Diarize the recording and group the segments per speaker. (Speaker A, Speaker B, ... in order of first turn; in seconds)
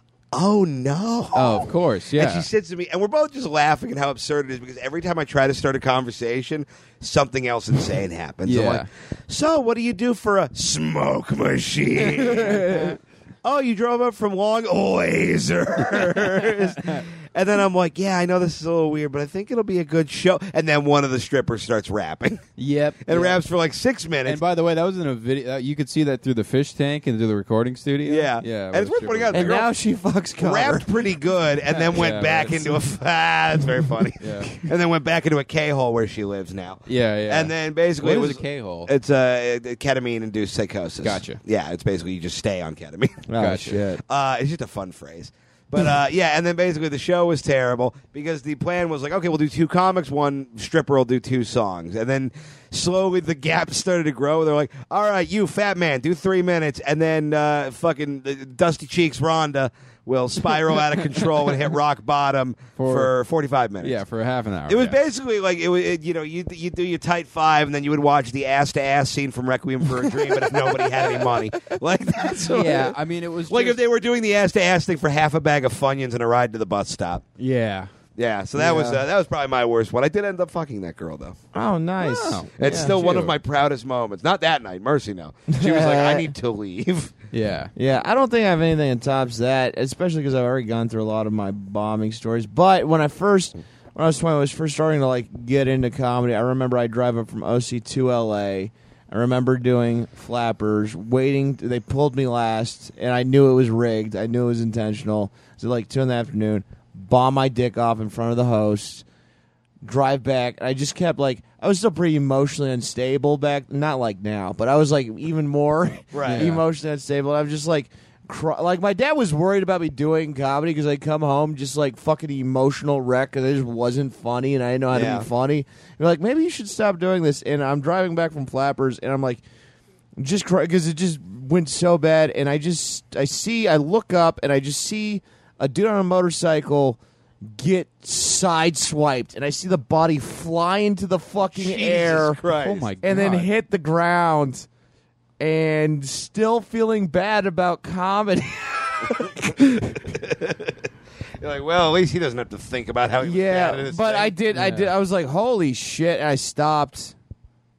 Speaker A: 0.3-12.8, 13.4-22.4, 23.0-24.4, 28.1-29.7, 30.4-43.3, 44.0-64.0, 64.7-73.0, 73.5-77.2, 78.2-81.4, 82.6-87.1, 116.1-116.6, 124.9-125.3, 141.4-142.9, 149.2-150.8, 151.4-154.3
Speaker B: 1.3-2.5, 8.4-8.8, 15.8-17.1, 22.6-23.4, 24.2-29.6, 31.7-32.8, 34.2-34.5, 36.9-38.9, 41.0-41.4, 43.4-43.8, 62.8-63.1, 63.8-65.0, 72.5-73.8, 77.4-77.9, 82.0-83.3, 87.3-87.7, 116.2-116.6, 142.6-143.5, 154.5-154.9
Speaker C: 12.3-12.9, 29.3-30.9, 43.3-44.0, 78.6-79.0, 81.5-82.9, 85.5-86.3, 87.8-109.0, 109.8-129.4, 130.2-142.4, 143.0-144.7, 145.4-150.0, 153.2-157.1